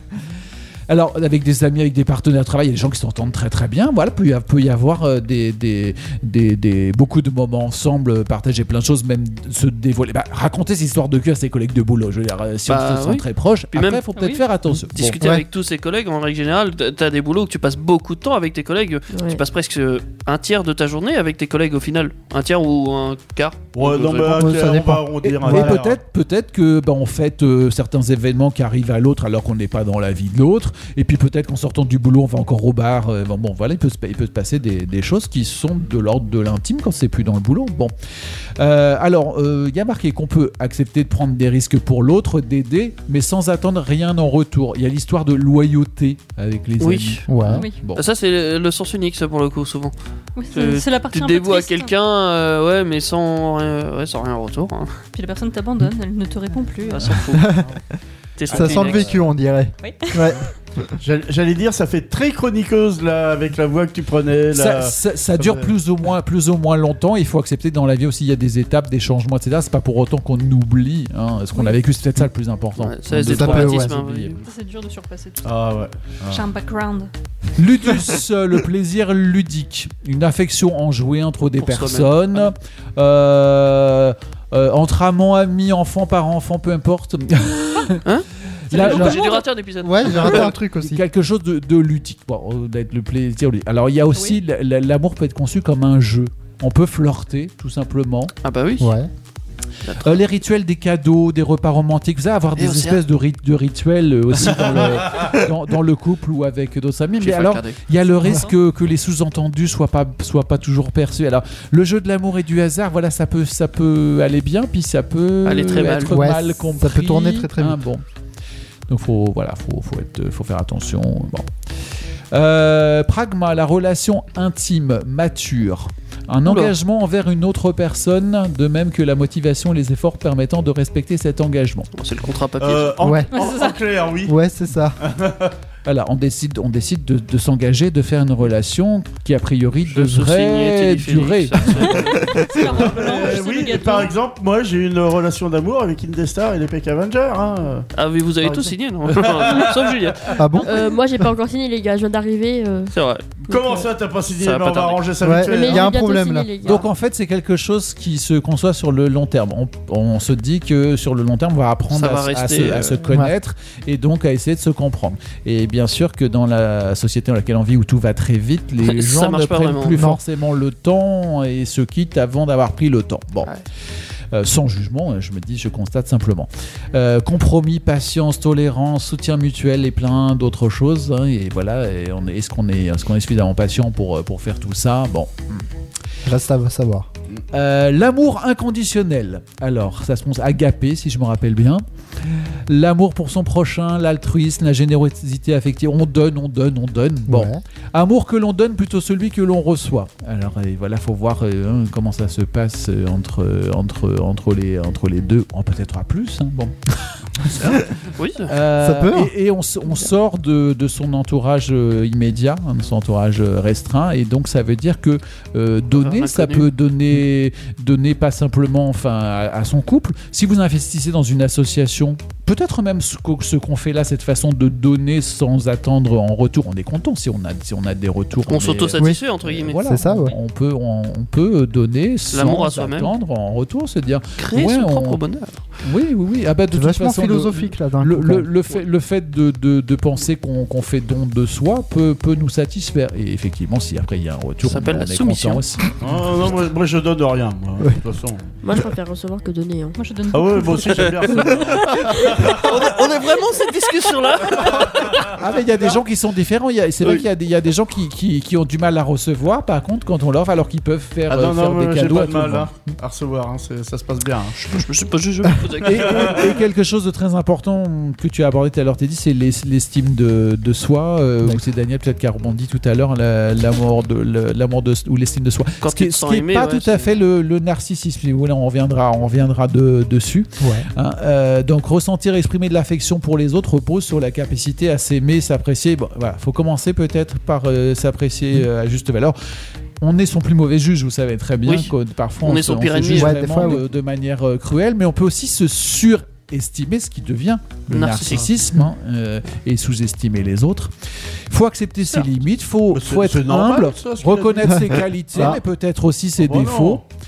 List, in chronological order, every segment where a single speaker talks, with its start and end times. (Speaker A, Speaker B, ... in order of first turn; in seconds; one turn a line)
Speaker A: 0.9-15.2
Speaker B: 12.7-14.0
Speaker C: 14.1-14.4
Speaker D: 14.7-15.4
Speaker B: 14.9-24.5
Speaker E: 19.1-19.4
Speaker F: 23.7-26.0
Speaker D: 24.4-25.8
Speaker A: 25.2-37.9
Speaker A: 38.6-48.0
Speaker B: 46.8-47.2
Speaker D: 47.3-47.7
Speaker C: 47.5-47.8
Speaker B: 47.9-49.9
Speaker C: 50.4-51.9
Speaker B: 50.5-55.0
Speaker C: 55.1-57.2
Speaker B: 56.9-57.5
Speaker D: 57.3-57.7
Speaker B: 58.4-59.1
Speaker D: 58.5-60.4
Speaker C: 59.8-60.4
Speaker F: 61.0-65.7
Speaker A: 64.5-74.4
Speaker B: 72.8-74.4
Speaker D: 73.2-74.0
Speaker C: 74.4-75.7
Speaker F: 75.4-76.5
Speaker C: 76.2-77.1
Speaker A: 77.5-88.0
Speaker B: 81.6-82.5
Speaker B: 88.0-90.5
Speaker A: 88.7-89.2
Speaker D: 88.8-89.2
Speaker C: 88.9-89.4
Speaker D: 89.8-91.0
Speaker A: 90.1-98.3
Speaker C: 94.1-94.4
Speaker B: 98.4-98.9
Speaker D: 98.8-99.1
Speaker B: 99.8-100.2
Speaker A: 100.0-118.0
Speaker B: 102.5-103.0
Speaker F: 104.5-105.4
Speaker B: 107.2-107.8
Speaker C: 108.0-108.5
Speaker B: 115.4-116.2
Speaker D: 116.1-117.8
Speaker A: 118.9-121.5
Speaker A: 122.3-131.9
Speaker B: 126.4-126.7
Speaker B: 131.9-132.9
Speaker F: 132.6-134.3
Speaker D: 133.0-133.3
Speaker C: 133.3-133.9
Speaker D: 134.2-135.0
Speaker F: 135.0-135.5
Speaker A: 135.8-142.2
Speaker B: 139.9-142.1
Speaker C: 141.8-144.1
Speaker F: 142.7-147.9
Speaker B: 147.9-150.3
Speaker F: 148.4-150.3
Speaker D: 150.4-150.7
Speaker E: 150.6-152.9
Speaker B: 152.9-153.2
Speaker F: 153.4-155.8
Speaker E: 153.5-153.9
Speaker B: 154.3-155.1
Speaker D: 155.2-156.5
Speaker E: 155.4-156.9
Speaker A: 156.6-173.5
Speaker B: 161.9-163.0
Speaker D: 163.1-163.3
Speaker B: 168.8-170.0
Speaker D: 169.9-170.2
Speaker A: 174.3-185.7
Speaker D: 186.2-187.1
Speaker A: 187.5-206.8
Speaker D: 197.3-197.6
Speaker B: 207.5-208.5
Speaker A: 208.5-235.2
Speaker D: 208.8-209.3
Speaker B: 215.9-216.7
Speaker B: 228.5-229.8
Speaker D: 229.0-230.3
Speaker B: 232.3-233.1
Speaker B: 234.4-235.7
Speaker A: 235.8-246.0
Speaker D: 236.7-238.5
Speaker B: 244.6-245.6
Speaker F: 246.0-248.4
Speaker E: 248.6-250.0
Speaker C: 249.9-252.3
Speaker F: 250.3-252.7
Speaker B: 252.5-255.3
Speaker F: 254.6-255.2
Speaker A: 255.3-262.7
Speaker F: 261.3-264.6
Speaker B: 264.6-266.4
Speaker A: 265.8-289.4
Speaker B: 275.8-277.1
Speaker D: 280.6-280.9
Speaker A: 290.0-300.9
Speaker B: 291.6-293.7
Speaker D: 293.1-293.8
Speaker B: 297.9-298.4
Speaker A: 301.5-307.0
Speaker F: 302.9-305.6
Speaker D: 305.3-305.6
Speaker F: 306.4-307.0